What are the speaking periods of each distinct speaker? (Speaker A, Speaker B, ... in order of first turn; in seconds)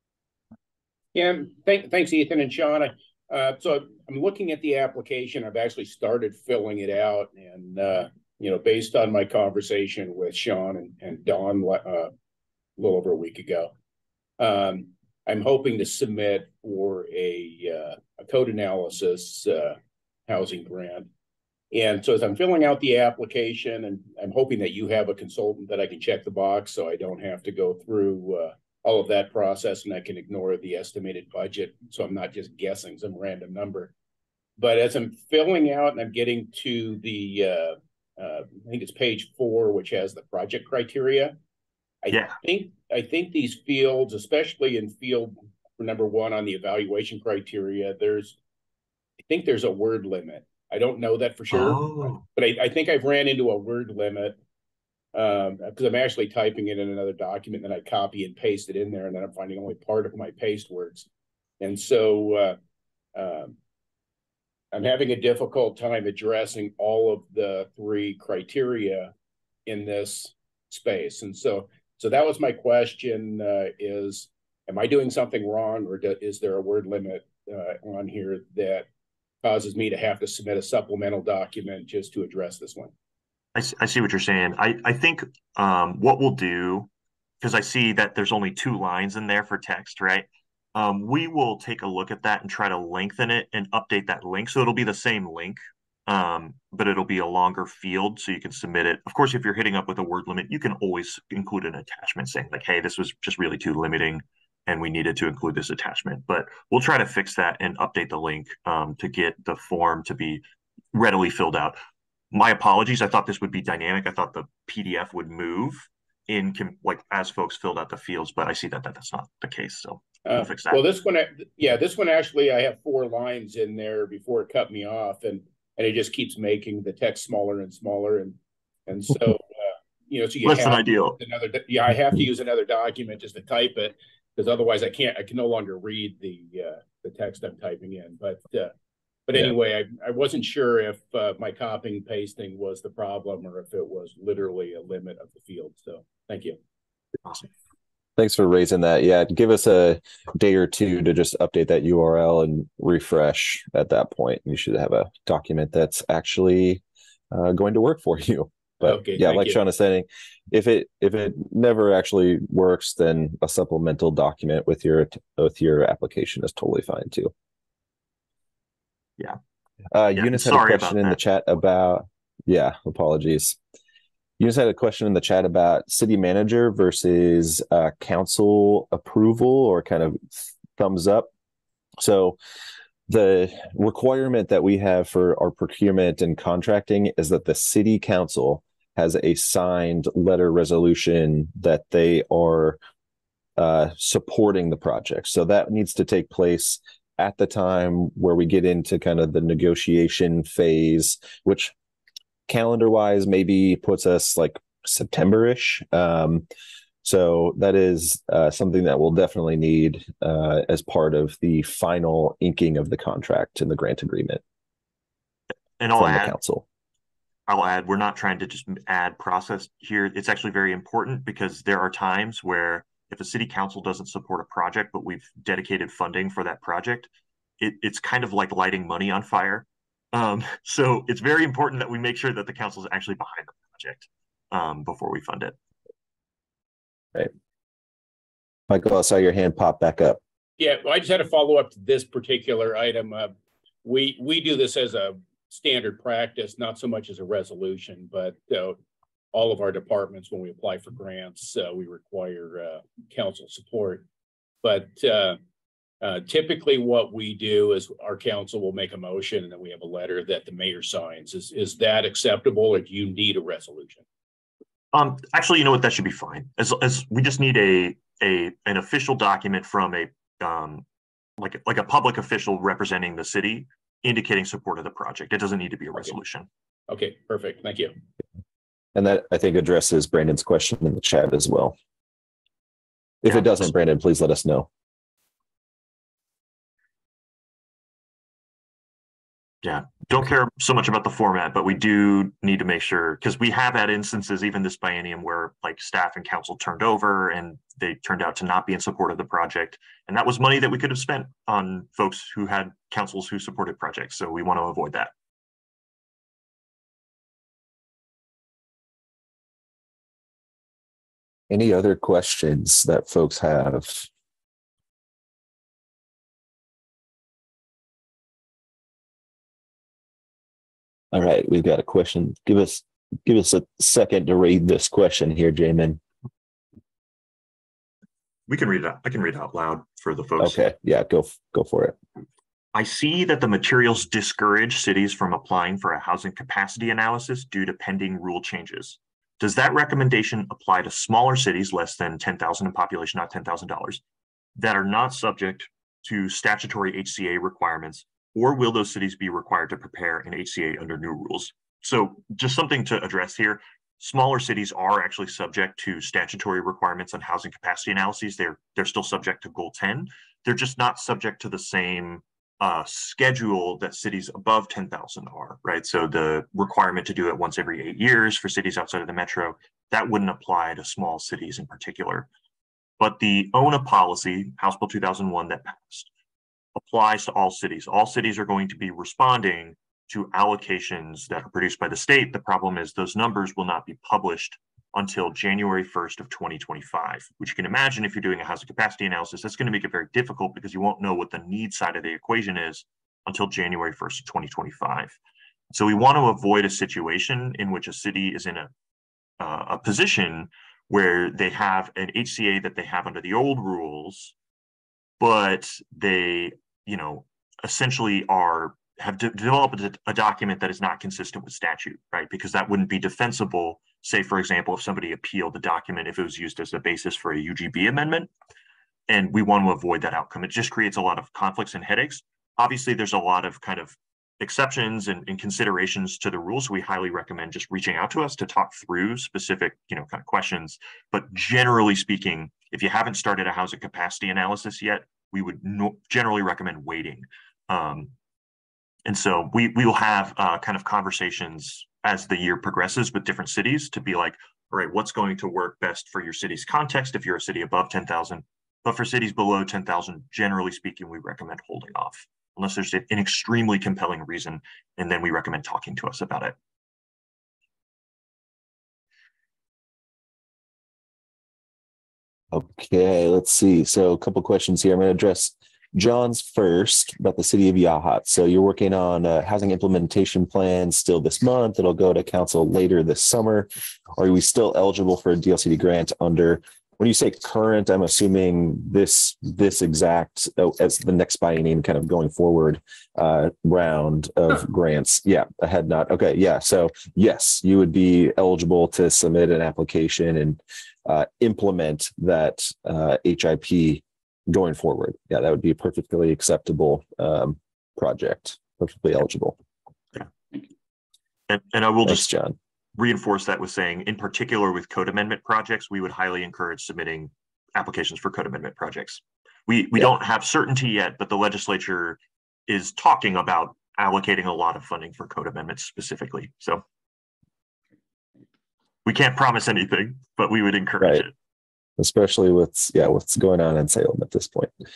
Speaker A: 1.1-12.1, 12.8-13.7, 14.4-21.1, 21.7-33.9, 34.6-41.3, 42.0-48.4, 49.3-54.4, 55.1-61.1, 61.6-62.5, 63.1-63.5, 64.7-69.1, 69.7-78.9, 79.4-82.9, 120.3-128.4, 128.9-138.7, 139.3-146.6, 158.8-159.6, 240.6-243.3, 243.8-248.8, 249.3-254.0, 254.6-255.4, 256.0-264.0, 276.9-277.9
Speaker B: 42.1-42.4, 51.5-52.2, 83.5-86.9, 87.4-110.4, 110.9-111.8, 112.3-120.8, 130.4-131.2, 170.2-171.2, 215.8-216.4, 217.5-235.6, 264.9-270.8, 271.4-276.5, 283.3-283.7, 289.6-305.1, 328.5-330.6, 332.7-344.0, 344.6-372.3, 373.0-376.1, 376.8-395.2, 395.7-398.7, 399.4-404.3, 405.2-418.3, 419.1-438.1, 439.1-456.6, 501.5-502.3, 503.0-516.8, 519.0-521.3
Speaker C: 148.2-167.3, 169.9-173.6, 174.4-181.3, 182.0-182.4, 183.1-192.8, 193.6-201.7, 202.5-206.4, 207.0-214.4, 216.0-216.7, 238.7-240.2, 278.9-281.8, 283.2-284.7, 311.5-314.1, 321.1-326.0, 330.4-332.0, 462.5-499.6, 502.1-502.6, 522.0-524.7